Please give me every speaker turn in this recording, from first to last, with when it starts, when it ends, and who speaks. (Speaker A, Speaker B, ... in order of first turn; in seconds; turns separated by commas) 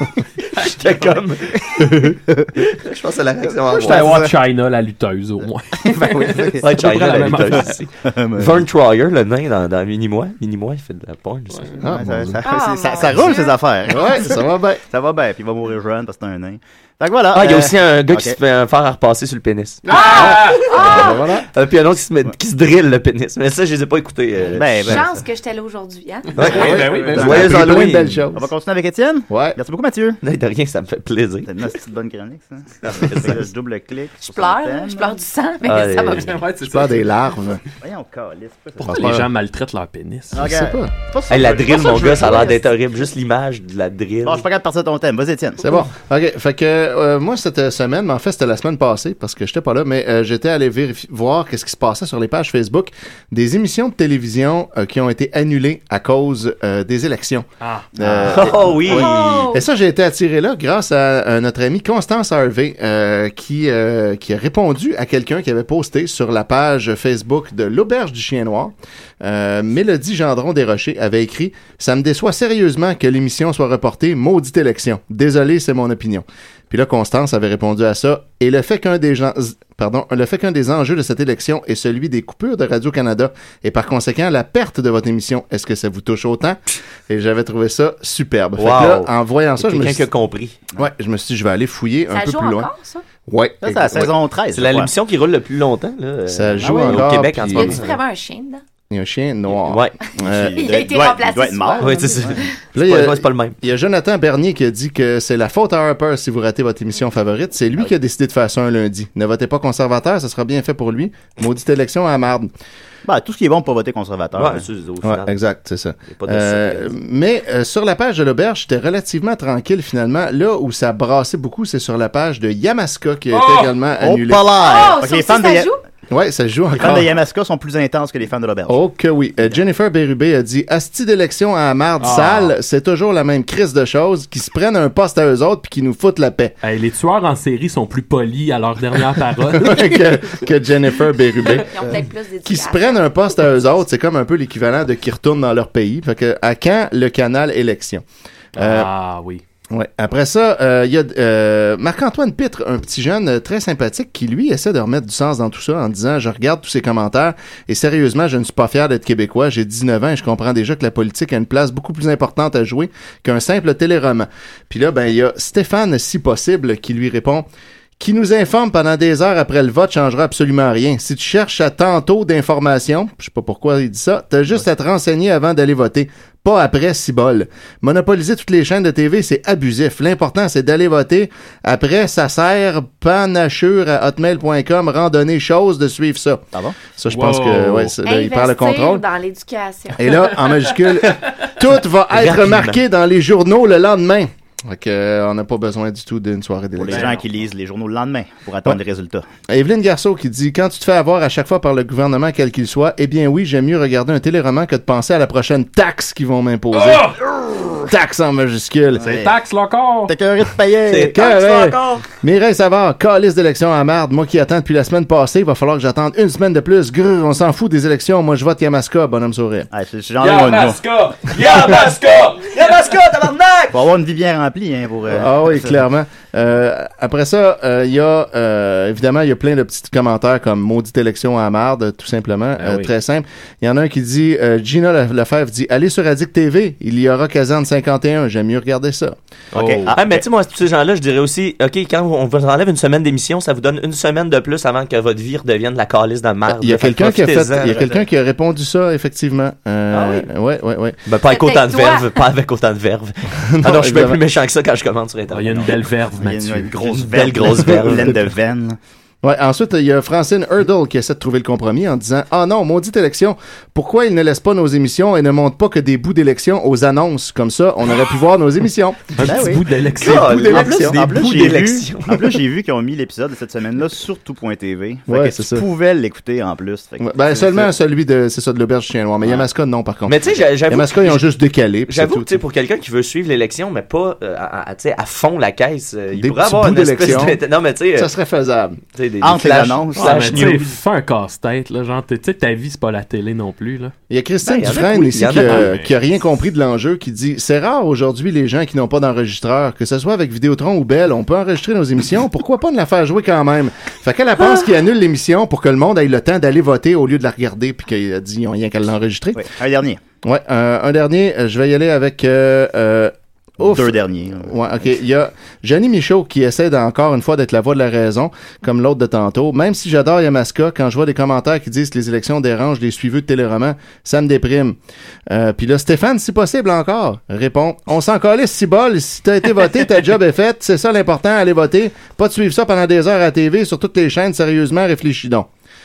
Speaker A: 0.6-2.0, Speaker B: 1.6-2.5, Speaker A: 2.6-4.1, Speaker B: 3.7-4.4, Speaker C: 3.8-7.9, Speaker B: 5.8-8.6, Speaker A: 6.6-11.8, Speaker C: 11.5-11.8, Speaker D: 11.8-12.4, Speaker B: 11.8-18.4, Speaker E: 12.4-13.6, Speaker D: 13.9-14.8, Speaker A: 17.3-20.9, Speaker D: 19.9-21.5, Speaker C: 19.9-20.8, Speaker E: 19.9-21.3, Speaker A: 21.5-25.0, Speaker B: 24.5-25.2, Speaker E: 24.8-26.6, Speaker A: 26.4-28.2, Speaker C: 26.4-27.8, Speaker D: 26.6-28.5, Speaker B: 28.3-30.2, Speaker D: 29.3-29.6, Speaker A: 30.2-31.5, Speaker B: 31.5-35.2, Speaker A: 32.8-33.5, Speaker E: 34.2-36.4, Speaker A: 35.6-36.3, Speaker C: 36.0-37.1, Speaker D: 36.6-37.6, Speaker B: 37.8-39.2, Speaker C: 38.8-40.5, Speaker D: 38.9-39.3, Speaker B: 40.3-42.6, Speaker D: 40.3-40.9, Speaker A: 41.3-44.5, Speaker E: 41.7-42.6, Speaker B: 44.2-45.7, Speaker D: 45.6-90.1, Speaker C: 57.6-57.9, Speaker B: 58.0-59.1, Speaker A: 58.3-59.5, Speaker E: 58.9-59.6, Speaker A: 88.6-90.6, Speaker D: 90.8-92.7, Speaker E: 92.1-93.0, Speaker D: 93.3-94.1, Speaker B: 93.6-94.9, Speaker A: 94.5-98.0, Speaker D: 96.3-97.9, Speaker B: 96.6-97.0, Speaker E: 97.5-98.6, Speaker D: 98.9-100.6, Speaker A: 99.6-99.9, Speaker B: 100.2-102.4, Speaker E: 100.5-102.5, Speaker A: 101.8-103.5, Speaker D: 102.8-112.5, Speaker B: 113.0-114.7, Speaker A: 114.3-115.4, Speaker D: 115.0-124.5, Speaker A: 116.1-117.0, Speaker C: 123.3-123.7, Speaker B: 124.0-125.7, Speaker E: 124.6-125.8, Speaker D: 126.1-127.2, Speaker B: 126.8-128.8, Speaker D: 128.7-136.5, Speaker C: 132.0-132.6, Speaker C: 136.6-140.0, Speaker D: 139.5-148.0, Speaker E: 141.5-143.2, Speaker C: 148.6-149.4, Speaker D: 148.6-148.9, Speaker D: 149.7-167.5, Speaker D: 168.0-189.0, Speaker B: 186.5-186.8, Speaker C: 187.1-187.9, Speaker E: 188.0-190.4, Speaker D: 190.0-197.2, Speaker A: 192.1-192.8, Speaker B: 196.8-199.3, Speaker C: 196.9-197.2, Speaker D: 199.5-209.3, Speaker C: 206.7-207.8, Speaker B: 209.0-209.3, Speaker C: 209.1-210.1, Speaker B: 210.1-211.3, Speaker A: 210.9-212.0, Speaker D: 211.1-219.7, Speaker B: 219.7-220.8, Speaker C: 220.2-222.6, Speaker A: 221.3-223.9, Speaker B: 223.7-225.8, Speaker D: 225.1-239.2, Speaker C: 232.6-232.9, Speaker B: 239.5-240.2, Speaker C: 239.5-239.9, Speaker A: 239.9-247.8, Speaker D: 246.5-251.0, Speaker B: 247.6-248.0, Speaker A: 249.9-250.3, Speaker A: 251.1-255.8, Speaker E: 251.3-252.2, Speaker D: 253.5-254.2, Speaker C: 255.3-256.7, Speaker B: 256.1-258.8, Speaker A: 256.7-258.3, Speaker D: 259.2-269.5, Speaker C: 269.2-270.8, Speaker B: 269.2-269.6, Speaker A: 270.0-272.4, Speaker D: 270.3-270.8, Speaker B: 270.5-277.7, Speaker D: 275.1-275.6, Speaker D: 277.0-282.4, Speaker A: 280.1-281.3, Speaker A: 281.9-288.1, Speaker D: 286.2-287.4, Speaker D: 288.0-288.8, Speaker A: 288.9-290.8, Speaker B: 289.2-290.6, Speaker C: 290.0-293.9, Speaker D: 294.1-309.5, Speaker A: 294.4-295.7, Speaker C: 295.3-295.9, Speaker B: 309.4-310.0, Speaker D: 310.2-324.8, Speaker B: 313.6-314.9, Speaker D: 325.3-335.5